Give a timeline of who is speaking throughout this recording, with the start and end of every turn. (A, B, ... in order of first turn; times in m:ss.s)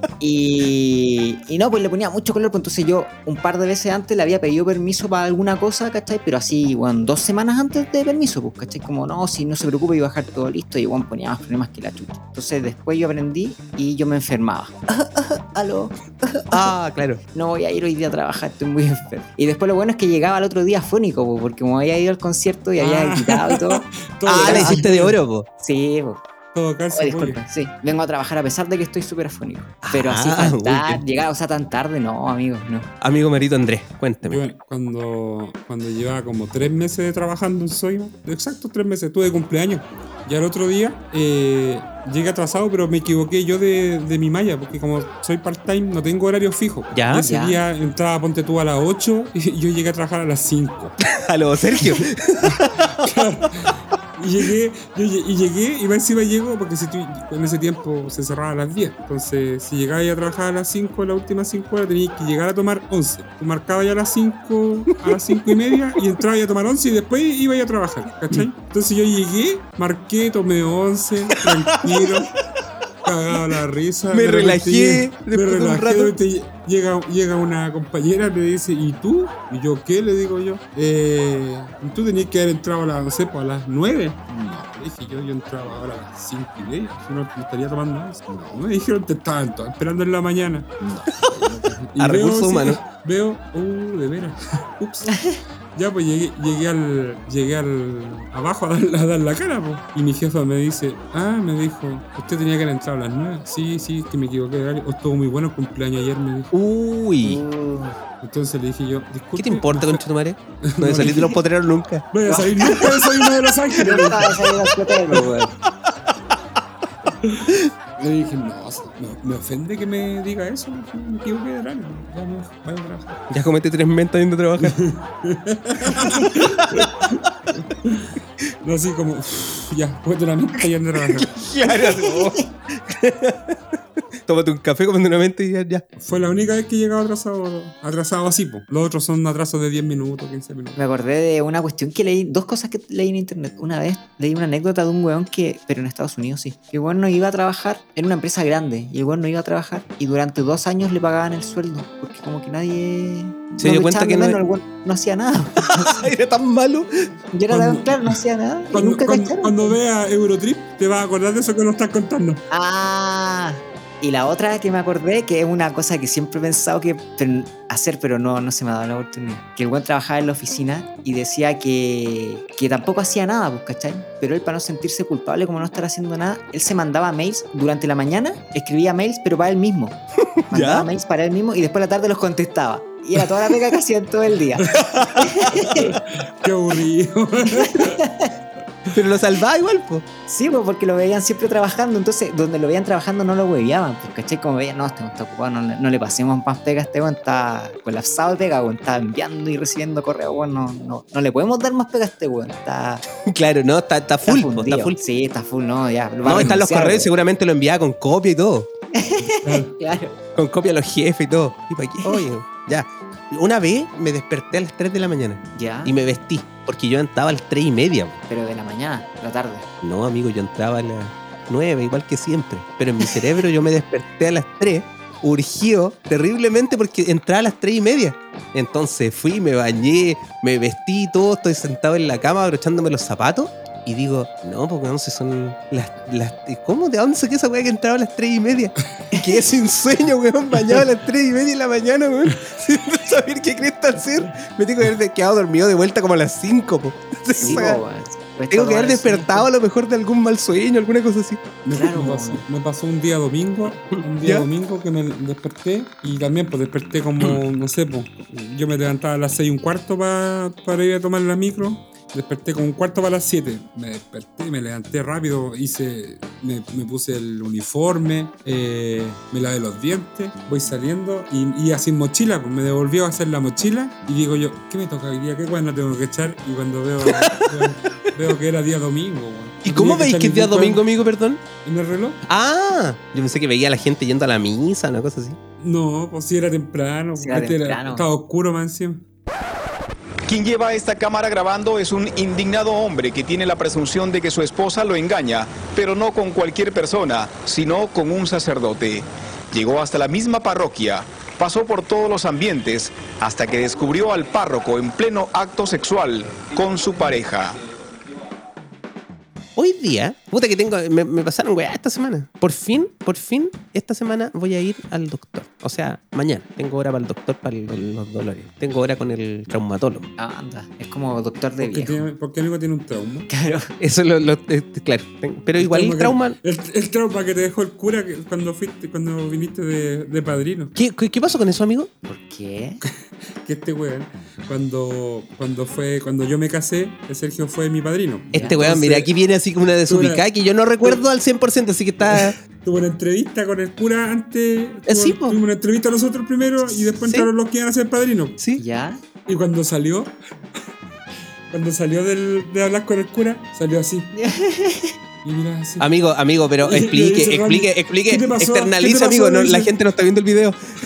0:00.2-0:16.7 A
0:16.5-0:17.2 B
0:17.3-0:23.8 A
0:22.8-0:25.2 C
0:24.3-0:25.5 B
0:24.4-0:24.9 A
0:25.6-0:26.2 A
0:26.5-0:27.4 C
0:26.9-0:32.9 A
0:29.8-0:31.0 B
0:33.0-0:34.4 B
0:34.3-0:51.0 C
0:46.9-0:47.3 B
0:47.2-0:47.6 A
0:51.0-0:53.2 B
0:52.4-1:12.3 C
1:04.9-1:05.6 B
1:11.3-1:12.1 B
1:13.0-1:46.5 C
1:14.1-1:16.1 B
1:31.1-1:32.8 B
1:46.5-1:47.4 B
1:47.2-1:48.0 A
1:48.2-1:50.0 C
1:49.4-1:52.1 B
1:50.6-1:51.4 C
1:52.1-1:55.2 C
1:52.3-1:52.9 A
1:53.8-1:55.5 A
1:57.2-2:03.2 C
2:03.3-2:04.8 B
2:04.6-2:11.4 C
2:06.2-2:06.9 B
2:11.1-2:13.6 B
2:11.7-2:12.5 A
2:14.3-2:15.8 B
2:16.0-2:20.8 C
2:20.8-2:36.1 A
2:33.6-2:34.4 B
2:35.6-2:36.9 B
2:37.3-2:39.7 A
2:37.5-2:38.2 C
2:38.7-2:42.4 C
2:42.5-3:00.0 A
3:00.4-3:00.9 B
3:00.5-3:05.9 A
3:04.9-3:05.5 B
3:05.8-3:08.0 C
3:07.5-3:08.3 A
3:08.9-3:10.1 B
3:10.3-3:23.0 A
3:23.3-3:25.0 B
3:24.2-3:27.1 A
3:26.2-3:28.7 B
3:28.9-3:30.2 A
3:29.4-3:29.7 C
3:30.4-3:38.2 B
3:35.6-3:35.9 A
3:38.3-3:39.7 A
3:39.8-4:07.8 B
4:07.4-4:09.5 A
4:08.5-4:11.4 B
4:11.6-4:40.8 C
4:11.7-4:12.4 A
4:13.9-4:14.5 B
4:37.1-4:37.5 B
4:39.6-4:41.4 B
4:41.6-4:42.2 C
4:42.3-4:45.4 B
4:45.6-4:49.0 C
4:47.2-4:48.0 A
4:50.3-5:07.6 D
5:09.6-5:20.1 B
5:20.2-5:22.0 A
5:21.6-5:23.3 C
5:23.3-5:23.7 A
5:23.8-5:26.4 B
5:25.6-5:30.8 C
5:30.8-5:31.9 B
5:32.1-5:32.8 A
5:33.4-5:39.1 C
5:38.3-5:38.6 A
5:38.3-5:42.4 B
5:39.9-5:40.3 C
5:42.1-5:48.4 C
5:44.9-5:45.4 B
5:47.0-5:47.3 B
5:48.6-5:49.0 A
5:49.3-5:50.1 C
5:51.5-5:54.1 C
5:54.2-5:54.9 A
5:55.2-5:55.9 C
5:55.8-6:00.6 B
5:56.6-5:59.7 C